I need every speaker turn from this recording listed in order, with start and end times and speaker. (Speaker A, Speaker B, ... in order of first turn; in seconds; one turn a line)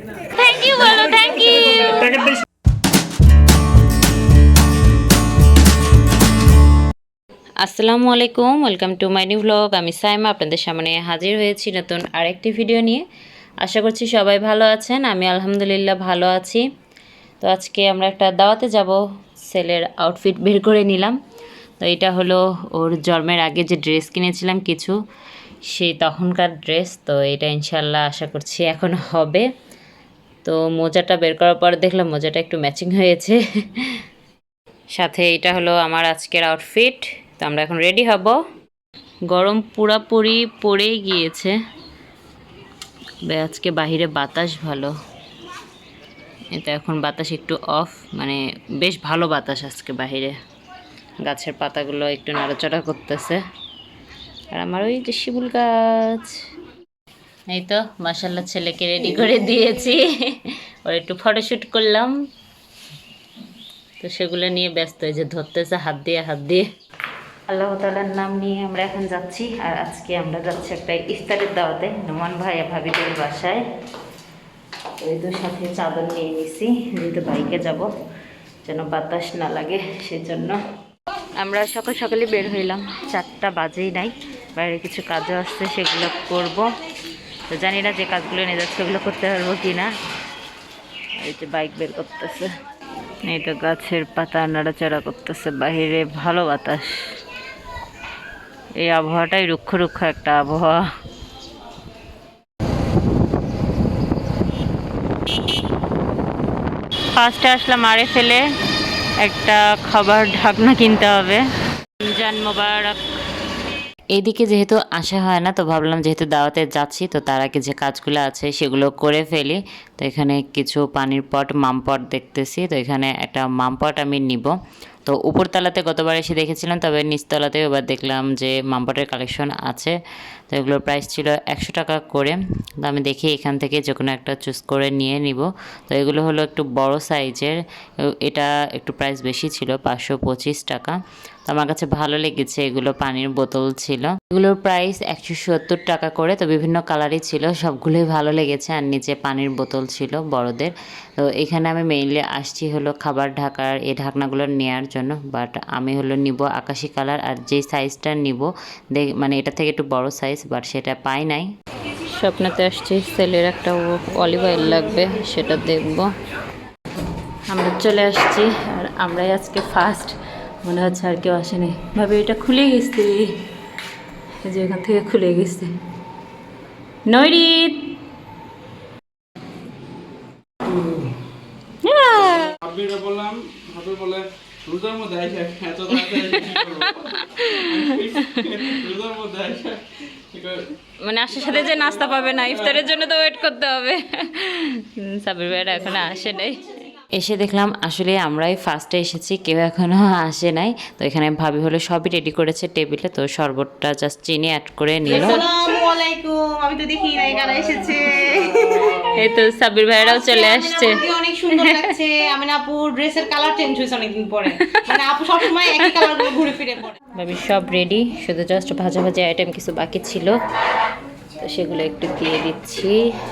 Speaker A: 0.3-2.1
Speaker A: 7.6-13.0
Speaker A: 13.6-16.6
Speaker A: 17.4-19.0
Speaker A: 19.5-21.1
Speaker A: 21.8-24.9
Speaker A: 25.7-29.4
Speaker A: 30.4-33.4
Speaker A: 35.0-38.4
Speaker A: 39.3-41.5
Speaker A: 43.3-44.9
Speaker A: 46.5-50.3
Speaker A: 51.2-53.4
Speaker A: 54.5-56.3
Speaker A: 57.5-60.3
Speaker A: 60.9-62.1
Speaker A: 64.0-66.7
Speaker A: 67.5-73.6
Speaker A: 75.0-77.9
Speaker A: 78.6-80.6
Speaker A: 81.4-86.6
Speaker A: 87.5-89.9
Speaker A: 91.2-92.5
Speaker A: 93.3-96.9
Speaker A: 98.8-100.8
Speaker A: 107.2-108.4
Speaker A: 109.2-111.4
Speaker A: 112.0-113.0
Speaker A: 114.1-124.5
Speaker A: 125.0-129.9
Speaker A: 130.5-137.6
Speaker A: 138.1-150.7
Speaker A: 151.3-161.4
Speaker A: 162.0-166.1
Speaker A: 167.5-173.3
Speaker A: 174.5-175.7
Speaker A: 177.1-177.8
Speaker A: 181.8-182.5
Speaker B: 182.6-190.7
Speaker A: 186.0-188.7
Speaker A: 191.0-196.6
Speaker B: 191.3-192.8
Speaker A: 197.2-205.4
Speaker C: 205.1-209.1
Speaker A: 209.2-211.9
Speaker C: 210.0-216.9
Speaker A: 215.6-216.1
Speaker A: 217.1-220.3
Speaker A: 221.4-222.9